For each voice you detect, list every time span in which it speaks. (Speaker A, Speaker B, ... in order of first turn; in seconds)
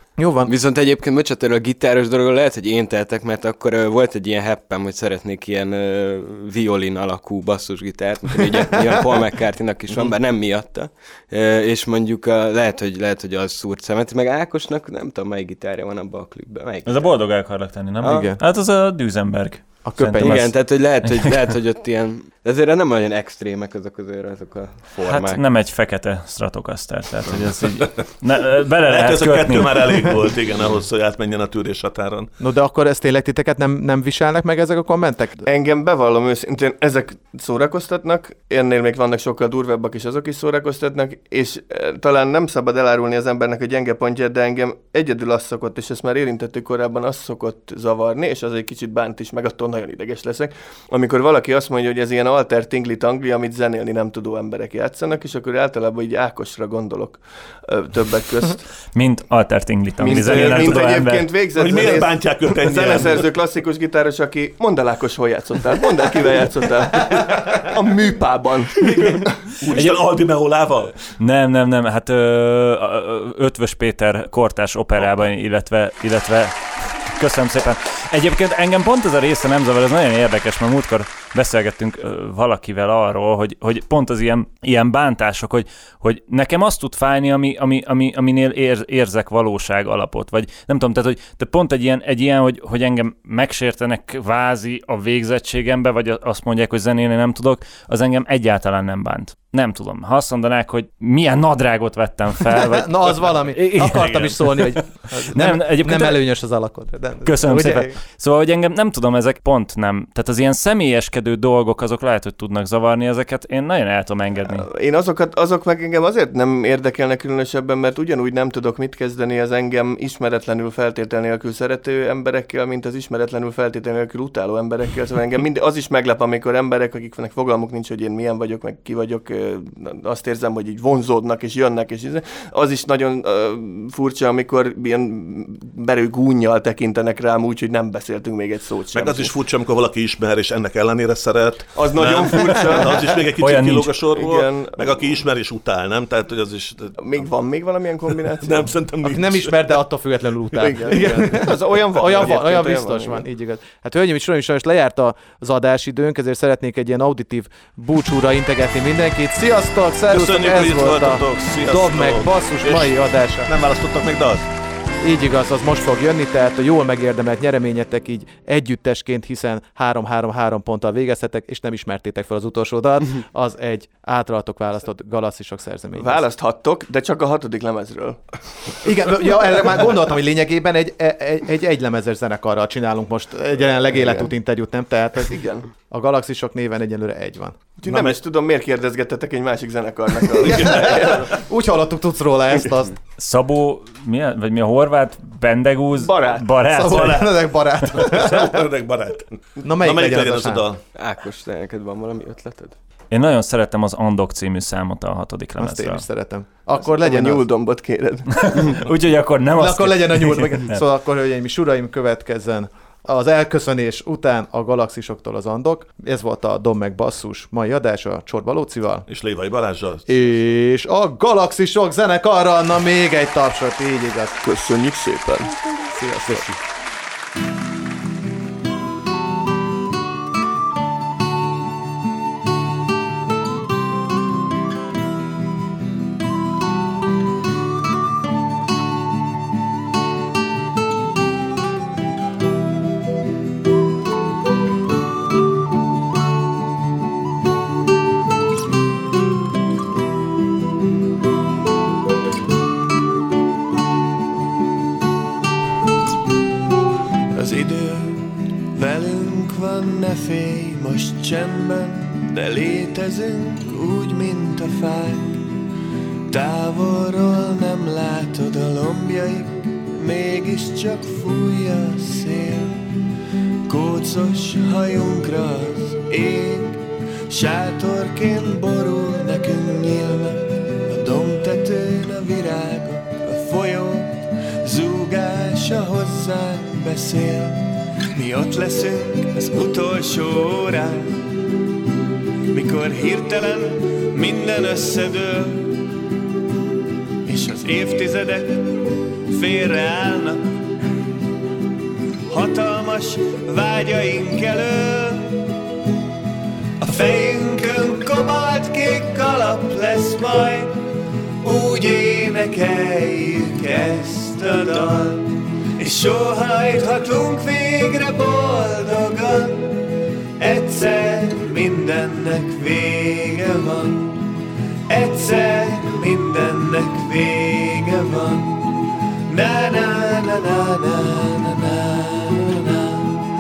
Speaker A: 0.2-0.5, 18.0-18.4, 19.8-20.5, 32.4-35.5, 102.5-108.0, 149.1-163.5, 165.0-176.2, 178.8-187.6, 190.4-192.9, 196.7-198.6, 199.6-200.7, 205.6-207.4, 209.6-219.1, 220.1-224.4, 226.0-226.5
Speaker B: 0.5-17.1, 20.2-25.4, 201.0-202.8
Speaker C: 16.9-21.3, 25.0-30.1, 58.9-61.3, 71.2-106.2, 107.2-114.7, 143.4-144.0, 193.2-197.2, 203.1-206.0, 208.3-210.8
Speaker D: 28.9-32.3, 60.1-63.4, 69.7-71.0, 138.9-147.0, 148.4-149.7, 160.1-164.5, 187.9-188.2, 190.3-191.3, 196.8-197.3, 197.9-200.8, 219.1-220.2
Speaker E: 35.5-58.6, 60.0-69.8, 114.5-139.3, 141.8-143.2, 144.1-145.0, 147.0-148.7, 150.6-153.2, 175.9-178.2, 183.9-184.3, 185.3-185.7, 187.8-191.3, 196.0-196.5, 206.8-208.8, 224.4-226.4
Speaker F: 257.4-265.4, 266.3-272.8, 273.7-287.6, 288.1-291.1, 292.5-295.8, 297.3-300.4, 302.3-305.4, 306.8-310.7, 311.4-319.8, 320.4-324.2, 324.9-328.7, 329.3-333.1